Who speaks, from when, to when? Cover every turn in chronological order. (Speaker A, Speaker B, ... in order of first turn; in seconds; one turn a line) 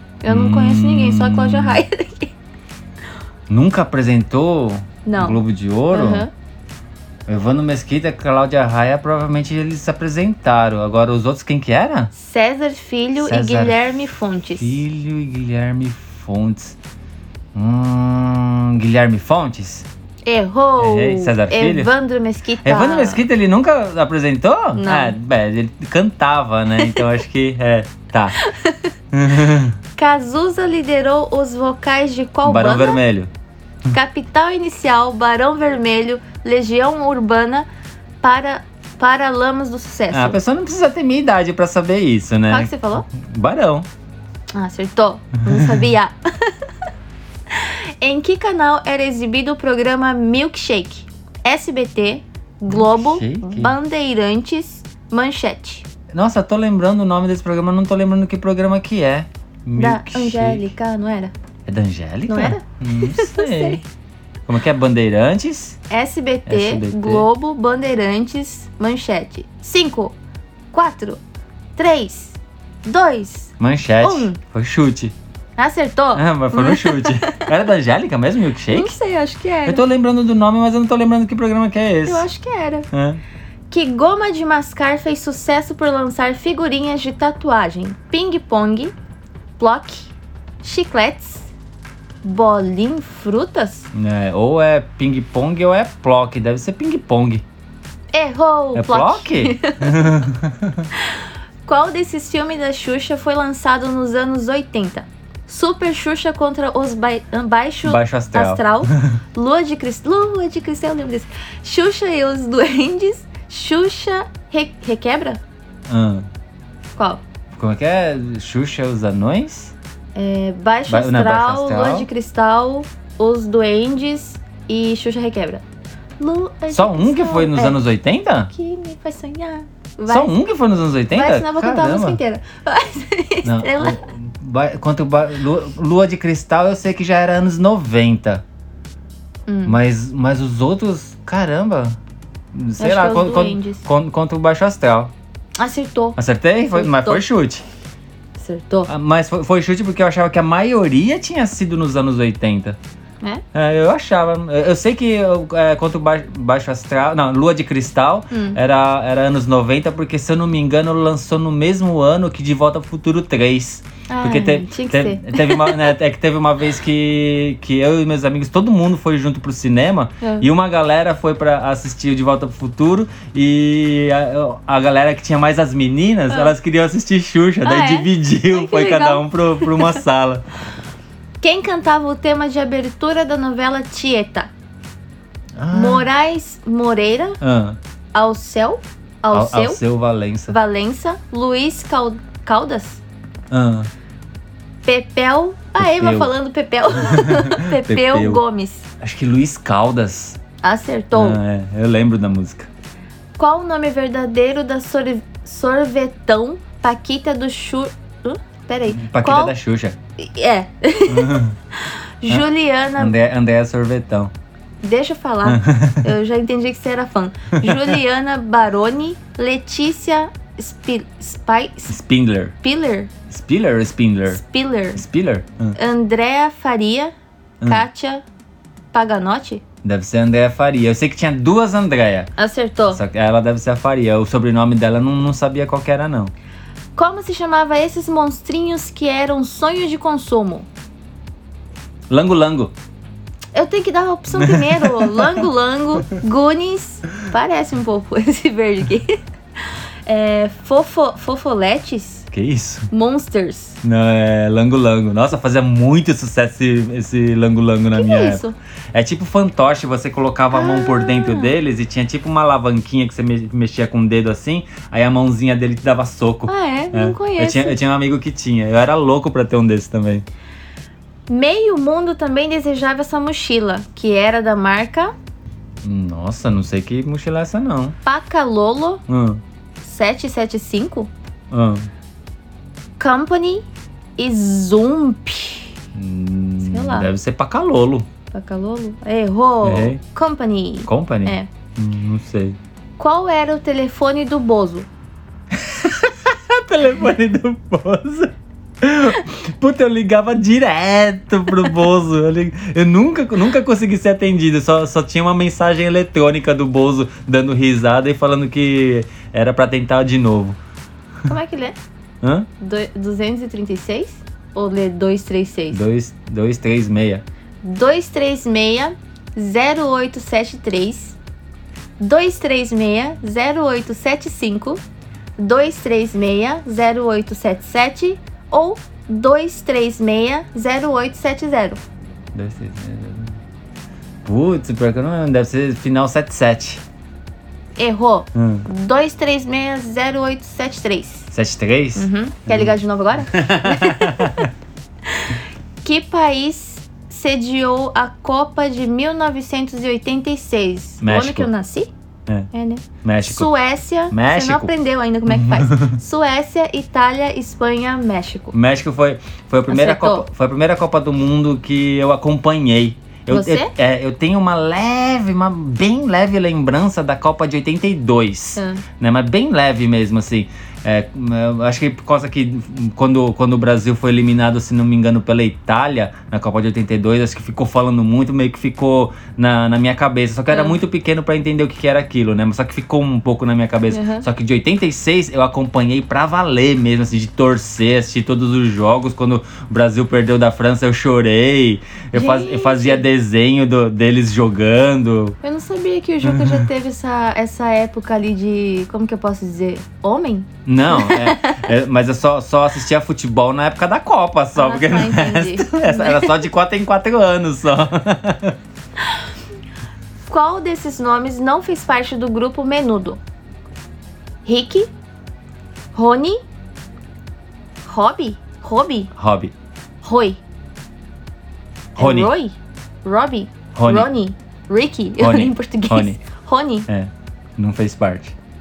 Speaker A: 0.2-2.3
Speaker B: 0.3-1.8
Speaker B: 3.5-6.2
Speaker A: 5.0-6.3
Speaker B: 7.3-12.1
Speaker A: 12.1-14.8
Speaker B: 13.2-13.8
Speaker B: 14.6-16.8
Speaker B: 17.5-19.9
Speaker A: 20.2-23.2
Speaker B: 20.8-21.9
Speaker B: 22.6-28.4
Speaker A: 24.8-25.1
Speaker A: 26.8-27.0
Speaker A: 28.4-28.9
Speaker B: 29.1-29.8
Speaker A: 29.9-33.0
Speaker B: 32.4-33.3
Speaker A: 33.9-37.7
Speaker A: 38.2-40.4
Speaker B: 40.1-43.9
Speaker A: 42.5-43.0
Speaker A: 44.5-46.5
Speaker A: 47.5-55.8
Speaker B: 52.7-53.7
Speaker B: 56.1-60.7
Speaker A: 59.8-61.3
Speaker B: 61.7-63.8
Speaker A: 62.3-63.8
Speaker B: 64.5-65.8
Speaker A: 65.9-70.1
Speaker B: 66.5-67.2
Speaker A: 70.7-71.2
Speaker A: 71.8-74.4
Speaker B: 73.6-75.1
Speaker A: 75.6-77.5
Speaker B: 76.1-78.9
Speaker A: 78.7-79.8
Speaker B: 79.7-82.2
Speaker A: 82.0-82.9
Speaker B: 82.9-83.2
Speaker A: 83.7-88.9
Speaker A: 89.6-90.1
Speaker A: 90.6-91.5
Speaker A: 92.2-93.9
Speaker B: 93.9-97.4
Speaker A: 98.1-100.1
Speaker B: 98.7-100.9
Speaker A: 101.0-115.4
Speaker B: 107.8-109.0
Speaker B: 115.9-116.2
Speaker A: 117.0-117.2
Speaker B: 117.5-119.7
Speaker A: 120.1-125.6
Speaker B: 120.9-122.1
Speaker A: 126.2-127.8
Speaker B: 126.7-128.5
Speaker A: 128.5-130.4
Speaker B: 130.1-132.2
Speaker A: 131.1-134.0
Speaker B: 133.4-138.4
Speaker A: 139.5-139.8
Speaker B: 139.7-142.0
Speaker B: 142.5-145.1
Speaker A: 142.8-143.8
Speaker A: 145.6-147.2
Speaker B: 146.2-147.6
Speaker A: 148.4-148.9
Speaker B: 148.9-152.8
Speaker B: 153.5-180.4
Speaker A: 158.3-158.6
Speaker A: 164.1-165.9
Speaker A: 177.6-180.0
Speaker A: 181.4-184.5
Speaker B: 185.6-186.1
Speaker A: 185.7-187.4
Speaker B: 187.4-187.8
Speaker A: 188.1-189.8
Speaker B: 189.3-190.6
Speaker A: 190.5-193.0
Speaker B: 193.5-193.9
Speaker A: 194.8-198.8
Speaker B: 195.8-196.3
Speaker B: 197.0-198.4
Speaker B: 199.0-200.4
Speaker A: 200.6-201.4
Speaker B: 201.1-202.7
Speaker A: 203.4-209.5
Speaker B: 208.9-209.9
Speaker A: 210.2-213.2
Speaker B: 211.1-211.6
Speaker B: 213.0-214.3
Speaker A: 214.8-222.0
Speaker B: 215.4-216.1
Speaker B: 217.6-218.0
Speaker B: 221.9-222.5
Speaker A: 222.6-223.1
Speaker B: 223.3-224.4
Speaker A: 224.3-225.0
Speaker B: 224.9-225.8
Speaker A: 225.7-227.1
Speaker A: 227.6-228.2
Speaker A: 228.9-229.6
Speaker B: 229.8-232.3
Speaker A: 232.4-233.0
Speaker B: 232.9-236.3
Speaker A: 236.9-240.7
Speaker B: 242.1-242.7
Speaker A: 243.5-249.2
Speaker B: 244.3-245.5
Speaker A: 250.1-252.3
Speaker B: 252.3-252.9
Speaker A: 252.9-253.8
Speaker B: 253.8-258.4
Speaker A: 257.9-258.5
Speaker B: 258.9-270.2
Speaker A: 260.5-261.6
Speaker A: 266.5-267.8
Speaker A: 271.3-275.1
Speaker B: 275.8-277.9
Speaker A: 278.0-279.0
Speaker B: 279.1-279.4
Speaker A: 279.8-281.1
Speaker B: 281.5-281.9
Speaker A: 283.0-283.6
Speaker A: 284.2-285.7
Speaker B: 285.9-288.1
Speaker A: 286.6-287.1
Speaker A: 288.3-291.5
Speaker B: 289.6-290.0
Speaker B: 290.9-292.6
Speaker A: 293.0-294.9
Speaker B: 295.6-310.6
Speaker A: 311.3-311.8
Speaker B: 312.2-312.5
Speaker A: 312.6-315.8
Speaker B: 315.7-317.2
Speaker A: 317.6-321.2
Speaker A: 322.0-324.8
Speaker A: 325.4-331.8
Speaker B: 332.3-333.4
Speaker B: 334.2-336.8
Speaker A: 337.8-341.3
Speaker B: 338.3-338.6
Speaker B: 341.3-344.5
Speaker A: 342.0-344.5
Speaker A: 345.2-351.9
Speaker B: 351.0-351.5
Speaker A: 352.5-358.5
Speaker B: 353.0-353.5
Speaker B: 354.1-354.7
Speaker B: 355.3-356.0
Speaker B: 358.5-395.4
Speaker A: 359.7-360.2
Speaker A: 363.3-363.7
Speaker A: 368.6-368.8
Speaker A: 380.5-380.8
Speaker A: 383.9-384.2
Speaker A: 392.1-393.0
Speaker A: 395.4-401.7
Speaker B: 396.2-396.6
Speaker B: 400.6-408.5
Speaker A: 404.5-406.4
Speaker A: 410.3-413.2
Speaker A: 414.4-414.9
Speaker A: 415.9-416.4
Speaker A: 417.8-419.1
Speaker B: 419.1-419.5
Speaker A: 420.0-420.4
Speaker A: 421.9-426.9
Speaker B: 422.0-422.3
Speaker B: 423.7-424.1
Speaker B: 425.2-426.2
Speaker B: 426.9-428.3